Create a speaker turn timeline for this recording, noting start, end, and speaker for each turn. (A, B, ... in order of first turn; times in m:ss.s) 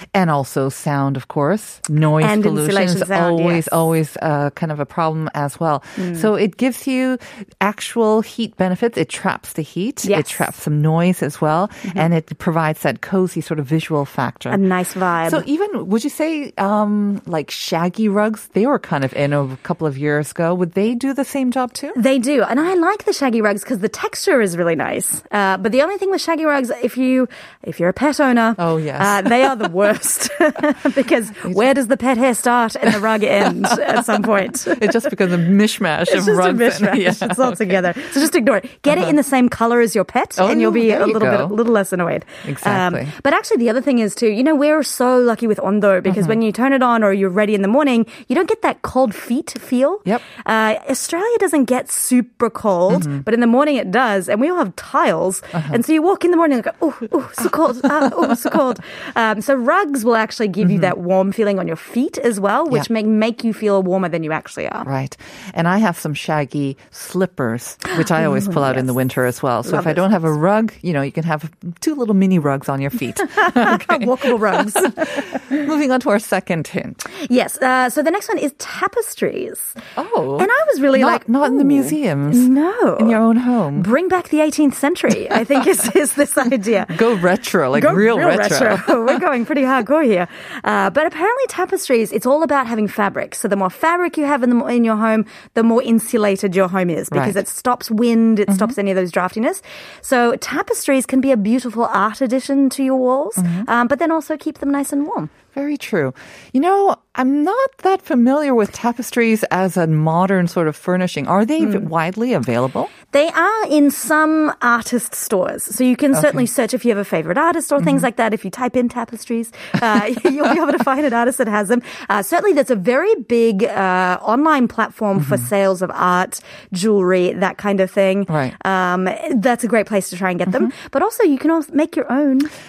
0:00.1-0:14.6 A
0:02.2-0:03.9 B
0:06.0-0:06.3 B
0:10.0-0:10.5 B
0:14.5-0:15.4 B
0:15.2-0:22.0 A
0:21.9-0:35.2 B
0:28.6-0:29.9 A
0:32.9-0:37.9 A
0:36.0-1:04.9 B
0:38.9-0:39.2 A
0:40.4-0:41.6 A
0:42.4-0:43.1 A
0:46.0-0:46.4 A
0:52.9-0:53.2 A
0:55.5-0:55.8 A
1:00.6-1:00.9 A
1:04.8-1:17.1 A
1:08.2-1:09.0 B
1:09.6-1:10.3 B
1:13.2-1:15.6 B
1:17.2-1:19.8 B
1:20.0-1:23.9 A
1:20.4-1:27.0 B
1:26.9-1:29.2 A
1:27.7-1:45.3 B
1:37.1-1:37.4 A
1:38.5-1:38.8 A
1:43.4-1:43.7 A
1:45.5-1:52.9 A
1:53.1-2:12.5 B
1:56.1-1:56.4 A
1:57.8-1:58.0 A
2:05.2-2:05.5 A
2:08.3-2:08.5 A